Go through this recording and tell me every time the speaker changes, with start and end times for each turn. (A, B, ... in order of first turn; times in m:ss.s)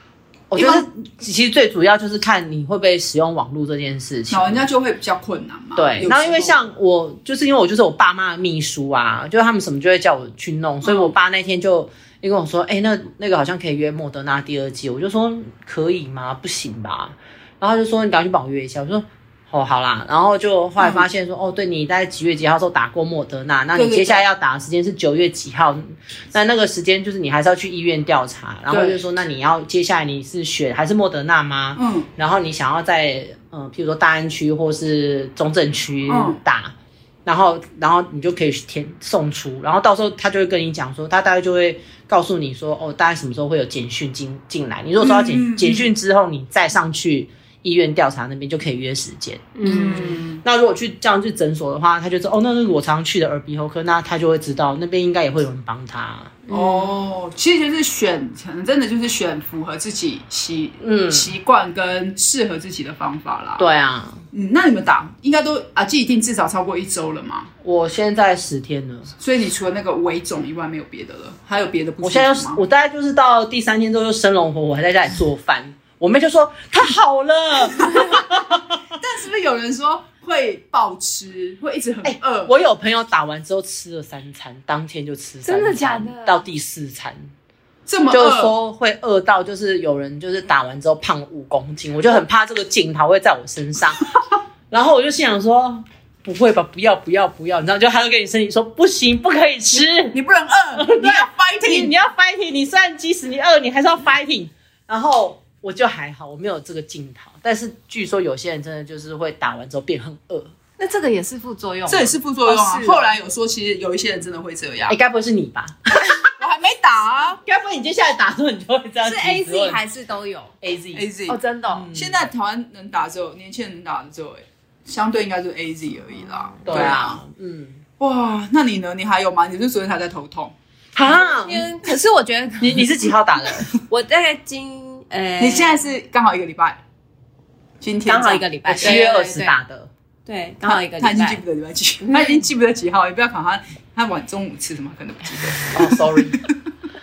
0:00.5-0:04.7 A
0:00.6-0:00.9 B
0:04.3-0:06.6 B
0:05.8-0:36.7 A
0:10.8-0:11.1 B
0:20.8-0:21.1 B
0:23.7-0:24.3 B
0:28.7-0:29.0 B
0:31.8-0:32.1 B
0:36.1-0:36.4 B
0:37.3-0:49.6 A
0:45.0-0:45.9 B
0:49.6-0:50.2 C
0:49.6-0:50.4 B
0:50.4-0:56.4 A
0:56.5-0:56.9 C
0:56.5-1:03.6 B
1:00.8-1:01.3 A
1:03.6-1:04.2 A
1:04.3-1:07.5 B
1:07.6-1:09.1 A
1:09.2-1:12.6 B
1:12.0-1:18.8 A
1:19.0-1:22.5 B
1:22.0-1:27.3 A
1:25.4-1:26.4 C
1:27.9-1:28.6 B
1:28.1-1:34.0 A
1:34.7-1:40.2 A
1:39.7-1:41.9 B
1:40.8-1:50.5 A
1:50.8-1:53.1 C
1:51.9-1:55.0 B
1:54.9-1:56.2 A
1:56.2-1:57.4 B
1:57.5-1:59.8 A
1:59.0-2:00.6 C
2:00.6-2:01.1 A
2:00.9-2:01.4 B
2:01.3-2:01.9 C
2:01.7-2:02.2 A
2:01.9-2:07.2 B
2:06.6-2:07.8 A
2:08.0-2:10.5 B
2:11.0-2:11.7 A
2:11.0-2:12.9 C
2:12.6-2:13.7 A
2:13.7-2:15.8 C
2:15.4-2:16.8 B
2:17.8-2:19.0 B
2:18.1-2:19.5 C
2:18.7-2:19.9 A
2:20.3-2:21.4 C
2:20.6-2:26.5 B
2:22.0-2:22.4 C
2:25.7-2:26.4 A